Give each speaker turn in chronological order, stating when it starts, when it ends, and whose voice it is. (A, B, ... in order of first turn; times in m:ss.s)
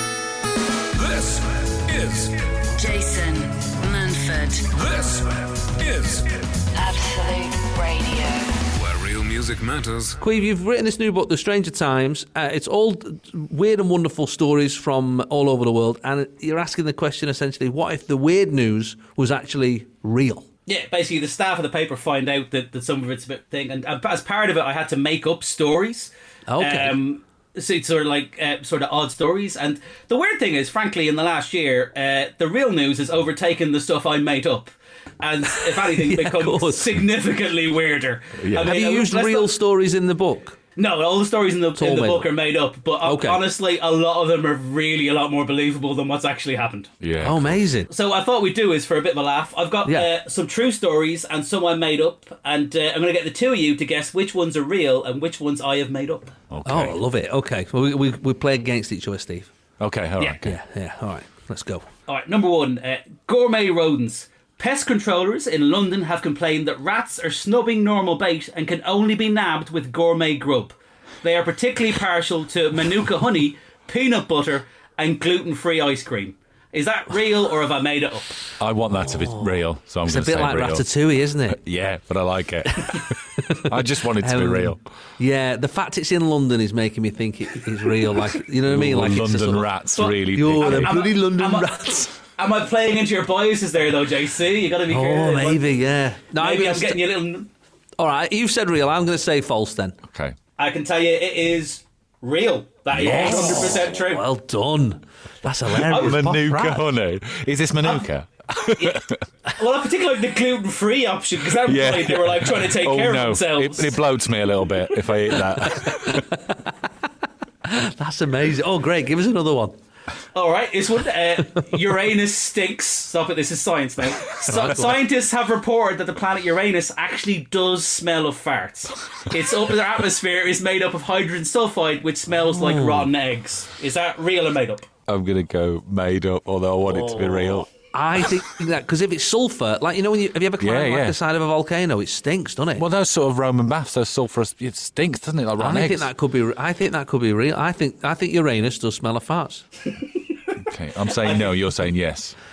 0:00.9-0:02.5 A
0:02.7-0:04.7 B
0:04.7-0:06.7 A
0:06.8-0:08.6 B
0:08.7-0:10.2 A
0:10.2-0:20.5 C
0:20.7-0:39.6 D
0:26.5-0:27.0 C
0:35.7-0:36.9 C
0:38.4-0:38.7 E
0:38.6-0:40.6 C
0:40.8-0:46.9 D
0:41.8-0:42.3 C
0:43.0-0:43.4 C
0:47.0-0:47.6 E
0:47.2-0:47.9 C
0:47.9-0:56.4 D
0:49.8-0:50.1 C
0:56.5-0:57.0 E
0:56.6-0:59.5 C
0:59.8-1:00.6 E
1:00.4-1:01.9 C
1:02.1-1:18.5 D
1:18.6-1:20.9 E
1:19.0-1:21.6 C
1:21.5-1:24.8 E
1:22.8-1:32.1 C
1:28.6-1:30.9 E
1:30.0-1:35.8 D
1:34.9-1:37.1 C
1:36.3-1:37.5 D
1:38.0-1:40.0 C
1:40.1-1:40.4 E
1:40.6-1:44.3 D
1:42.9-1:43.6 E
1:43.0-1:46.9 C
1:45.8-1:49.2 E
1:45.9-1:46.2 D
1:48.8-1:53.9 D
1:51.5-1:56.3 E
1:56.0-1:56.6 C
1:57.6-1:59.8 C
2:00.3-2:14.9 D
2:04.5-2:04.9 C
2:12.4-2:13.1 C
2:15.1-2:17.7 E
2:16.9-2:22.8 C
2:20.6-2:21.2 E
2:22.8-2:26.1 E
2:25.6-2:29.7 C
2:30.6-2:32.4 E
2:31.2-2:31.6 D